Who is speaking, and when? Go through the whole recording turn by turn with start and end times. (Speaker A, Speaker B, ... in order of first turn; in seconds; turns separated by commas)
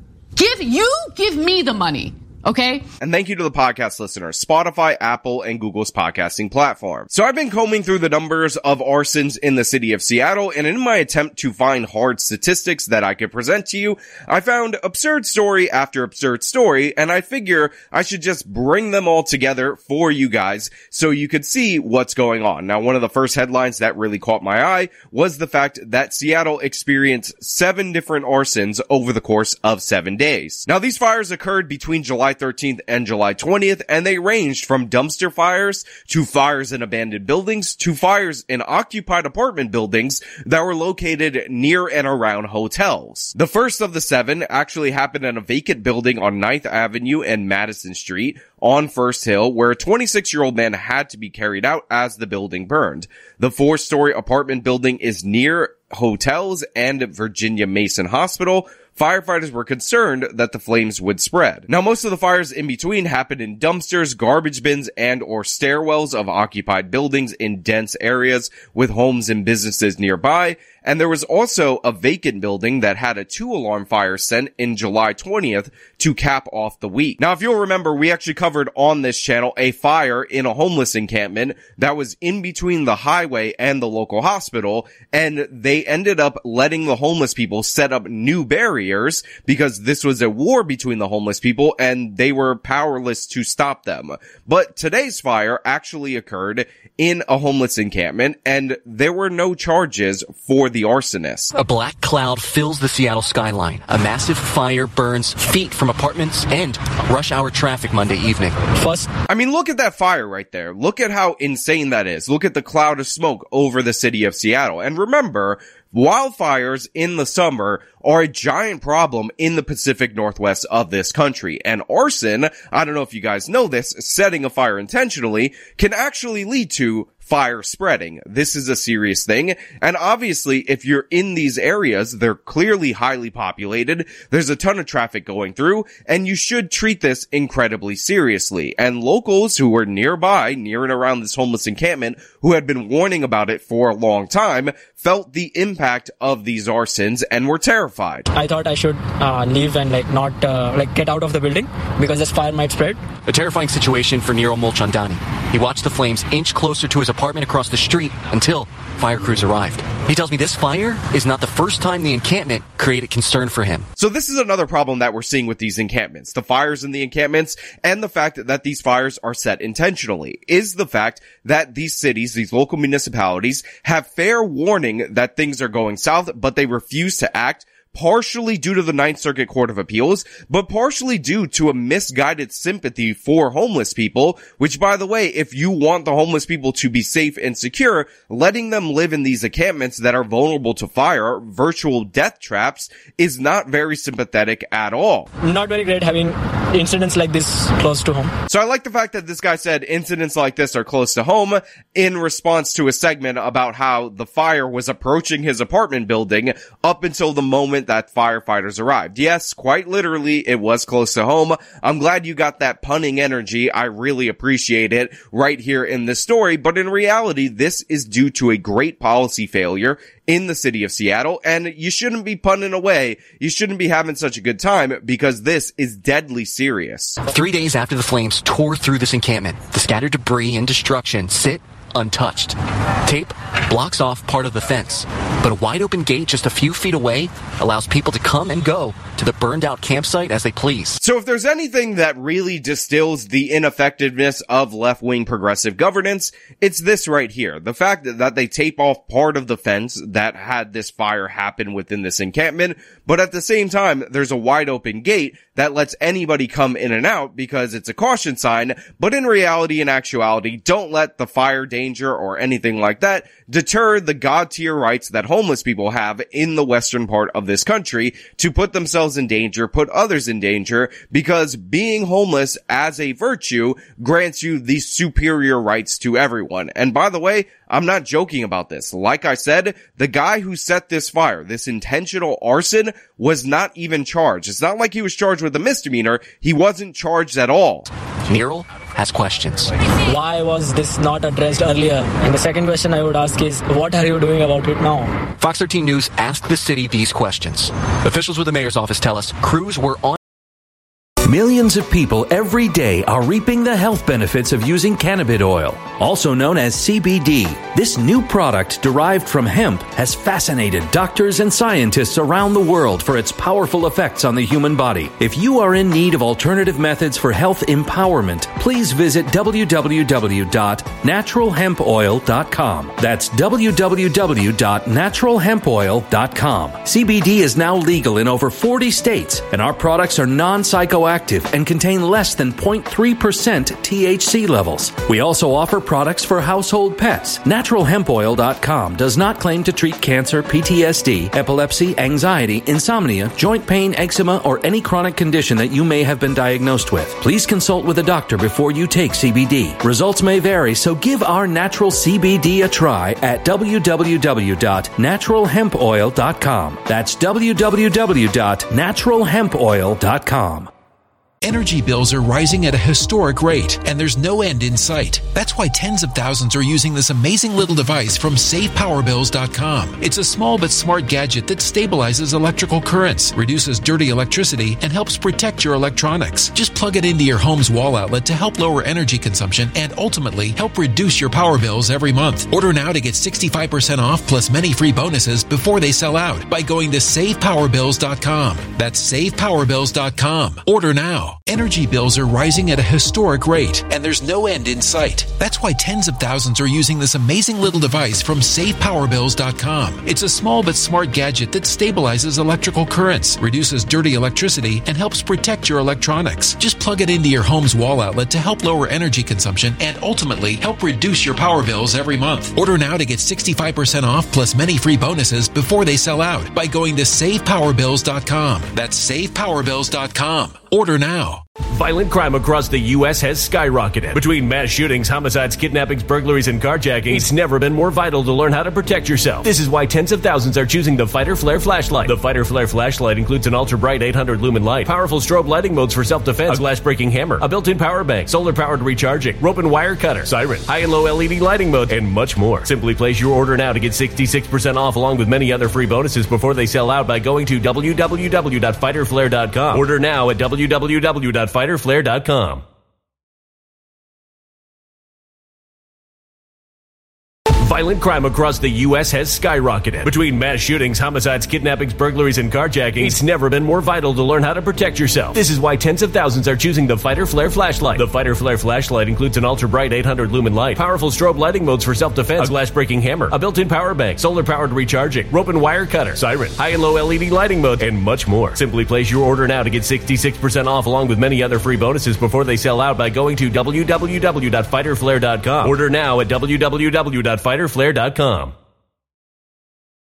Speaker A: 0.3-2.9, Speaker B: 3.0-101.5, Speaker C: 101.5-108.6, Speaker D: 108.7-109.1, Speaker B: 109.3-148.2, Speaker D: 148.3-153.0, Speaker C: 153.3-163.9, Speaker B: 164.0-195.3, Speaker D: 195.4-198.3, Speaker B: 198.5-227.2, Speaker C: 227.2-241.0, Speaker B: 241.0-287.9, Speaker C: 288.2-289.7, Speaker D: 290.1-295.2, Speaker C: 295.4-300.1, Speaker E: 301.2-360.7, Speaker F: 361.4-421.4, Speaker G: 421.7-452.6, Speaker G: 457.6-488.5